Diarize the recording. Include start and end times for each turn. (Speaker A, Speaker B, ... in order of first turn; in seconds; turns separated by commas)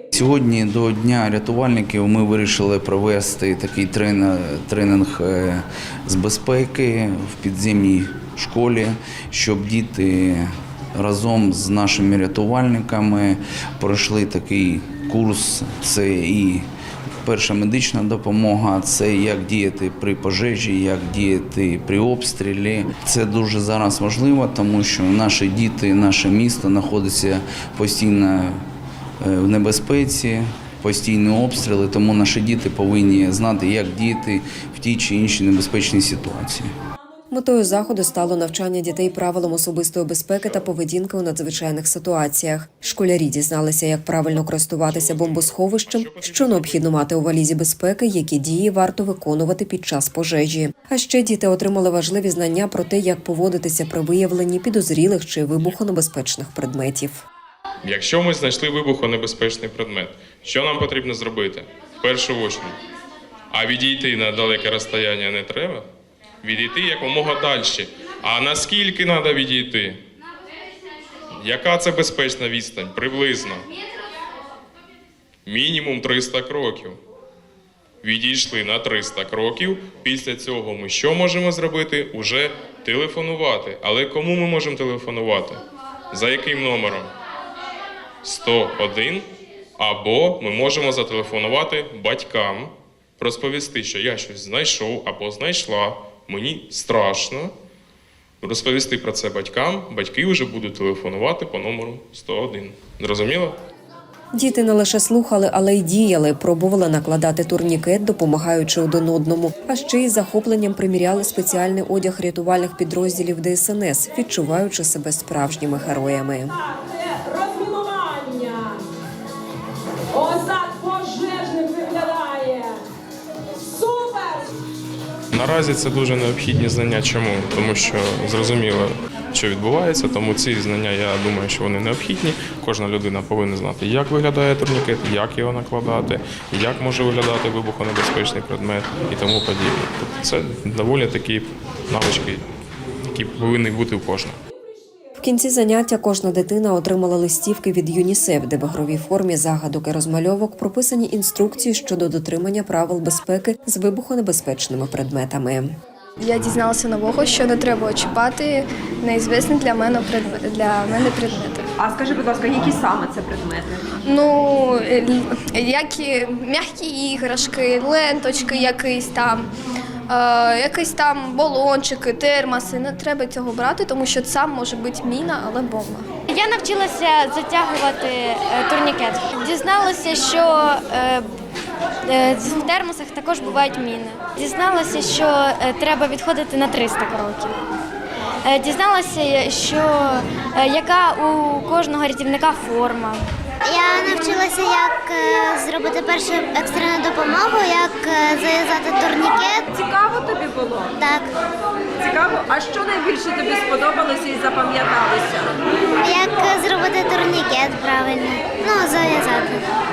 Speaker A: 0.1-16.7, Speaker A: 17.2-28.6, Speaker A: 29.2-36.7, Speaker B: 37.3-57.2, Speaker C: 44.9-47.0, Speaker C: 57.8-62.8, Speaker C: 63.5-65.9, Speaker C: 66.4-70.0, Speaker C: 71.4-73.7, Speaker C: 75.5-77.0, Speaker C: 78.0-87.1, Speaker C: 88.2-97.5, Speaker C: 98.4-103.6, Speaker B: 104.3-116.6, Speaker D: 117.0-118.8, Speaker D: 120.2-122.8, Speaker D: 123.8-124.4, Speaker C: 125.3-142.4, Speaker C: 143.1-144.4, Speaker B: 145.2-155.7, Speaker E: 156.2-161.7, Speaker D: 161.8-163.9, Speaker E: 164.1-169.5, Speaker E: 170.1-176.1, Speaker F: 176.3-181.2, Speaker F: 182.1-187.6, Speaker F: 188.4-193.2, Speaker G: 193.6-199.7, Speaker D: 199.7-200.9, Speaker G: 201.0-201.3, Speaker D: 202.0-205.5, Speaker G: 206.0-209.6